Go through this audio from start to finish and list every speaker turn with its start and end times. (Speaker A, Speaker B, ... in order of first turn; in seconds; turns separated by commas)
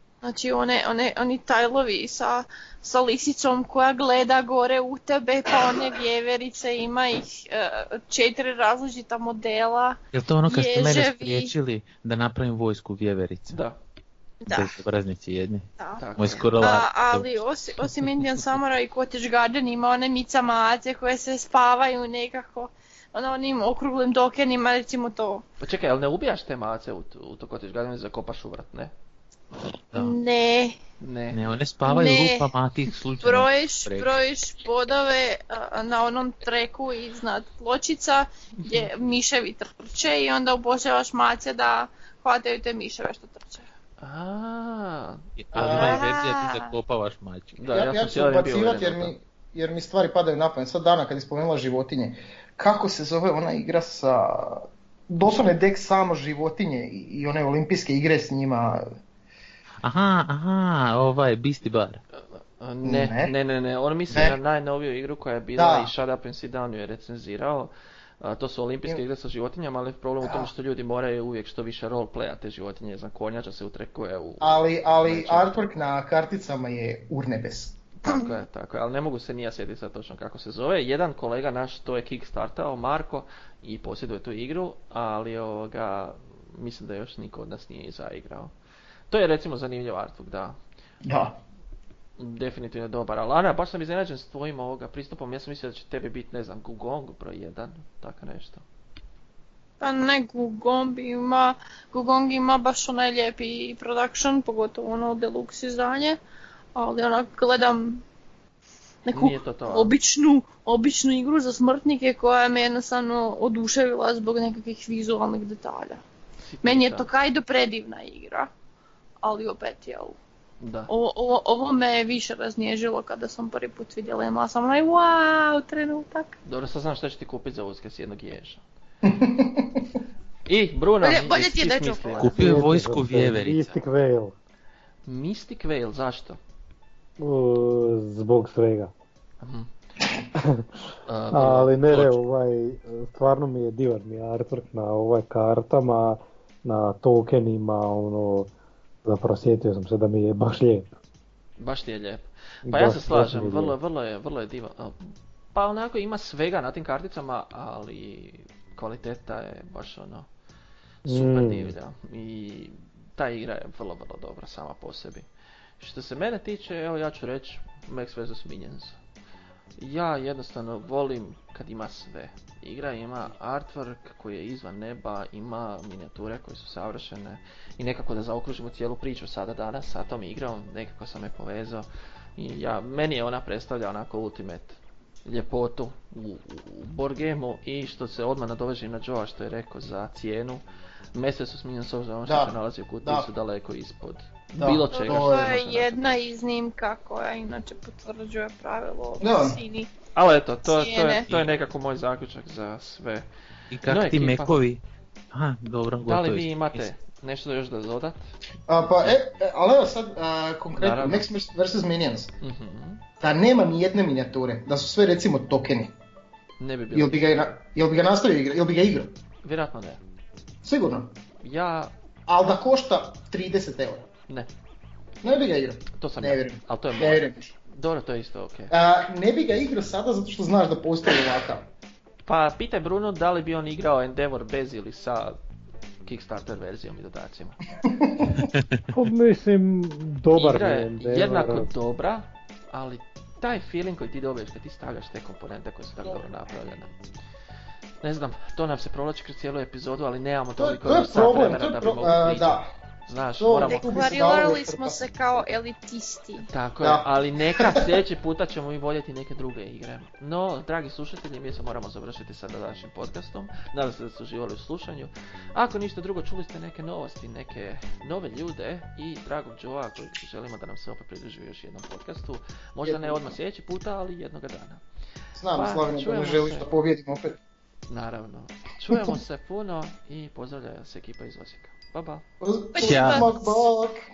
Speaker A: 0.2-10.0, Speaker B: 10.1-13.6, Speaker A: 10.5-11.5, Speaker C: 13.5-13.8, Speaker A: 14.4-14.8, Speaker B: 14.5-17.4, Speaker C: 16.0-16.5, Speaker A: 16.6-25.4, Speaker C: 25.6-28.9, Speaker B: 29.9-30.2, Speaker A: 29.9-30.8, Speaker C: 31.0-31.4, Speaker B: 31.3-34.1, Speaker A: 31.9-32.5, Speaker A: 33.2-43.6, Speaker C: 44.0-45.3, Speaker B: 45.4-47.5, Speaker A: 45.5-46.7, Speaker D: 45.6-46.0, Speaker C: 47.5-49.1, Speaker D: 47.7-58.9, Speaker B: 59.8-62.0, Speaker C: 62.1-75.7, Speaker D: 62.8-63.3, Speaker D: 64.1-64.4, Speaker D: 65.5-65.9, Speaker D: 70.2-70.5, Speaker D: 74.4-77.8, Speaker C: 78.0-88.5, Speaker C: 89.1-90.6, Speaker D: 91.0-91.4, Speaker C: 92.2-98.6, Speaker A: 99.8-106.2, Speaker A: 106.7-108.0, Speaker A: 109.1-116.0, Speaker C: 109.1-109.9, Speaker C: 116.4-117.1, Speaker A: 116.6-118.5, Speaker A: 119.2-120.2, Speaker C: 120.6-120.9, Speaker A: 120.9-126.3, Speaker C: 126.4-128.6, Speaker D: 129.0-130.0, Speaker C: 130.5-132.3, Speaker A: 131.0-132.4, Speaker B: 132.2-133.8, Speaker E: 132.3-134.3, Speaker C: 135.0-136.4, Speaker E: 137.2-138.9, Speaker C: 139.4-139.7, Speaker E: 140.3-140.6, Speaker C: 141.1-142.2, Speaker E: 141.3-148.5, Speaker E: 149.0-150.9, Speaker C: 151.6-160.3, Speaker E: 152.7-153.8, Speaker E: 161.0-161.7, Speaker C: 161.0-165.3, Speaker C: 165.8-169.0, Speaker C: 169.8-196.2, Speaker D: 192.2-193.3, Speaker D: 194.6-195.6, Speaker A: 194.9-199.9, Speaker D: 199.2-199.6, Speaker C: 200.1-203.2, Speaker A: 200.7-201.2, Speaker B: 203.7-204.8, Speaker C: 203.8-204.6, Speaker B: 205.3-206.9, Speaker C: 206.0-208.3, Speaker D: 208.7-212.3, Speaker C: 210.8-211.3, Speaker C: 212.4-213.0, Speaker D: 213.2-215.9, Speaker C: 216.6-217.3, Speaker D: 216.9-219.1, Speaker C: 219.4-220.0, Speaker D: 220.6-221.1, Speaker C: 221.4-221.9, Speaker D: 222.3-224.1, Speaker D: 225.2-227.5, Speaker C: 225.9-228.7, Speaker D: 228.7-231.7, Speaker C: 232.2-235.4, Speaker C: 236.0-237.6, Speaker D: 237.8-238.5, Speaker E: 238.9-241.7, Speaker C: 240.3-247.0, Speaker C: 248.0-254.0, Speaker D: 250.6-252.7, Speaker D: 253.4-255.4, Speaker A: 253.7-256.5, Speaker C: 256.4-274.8, Speaker D: 256.8-257.9, Speaker D: 272.8-273.4, Speaker D: 275.3-277.4, Speaker C: 275.5-276.7, Speaker C: 277.9-282.2, Speaker D: 278.9-279.2, Speaker D: 282.4-284.0, Speaker A: 282.7-283.6, Speaker B: 282.8-283.3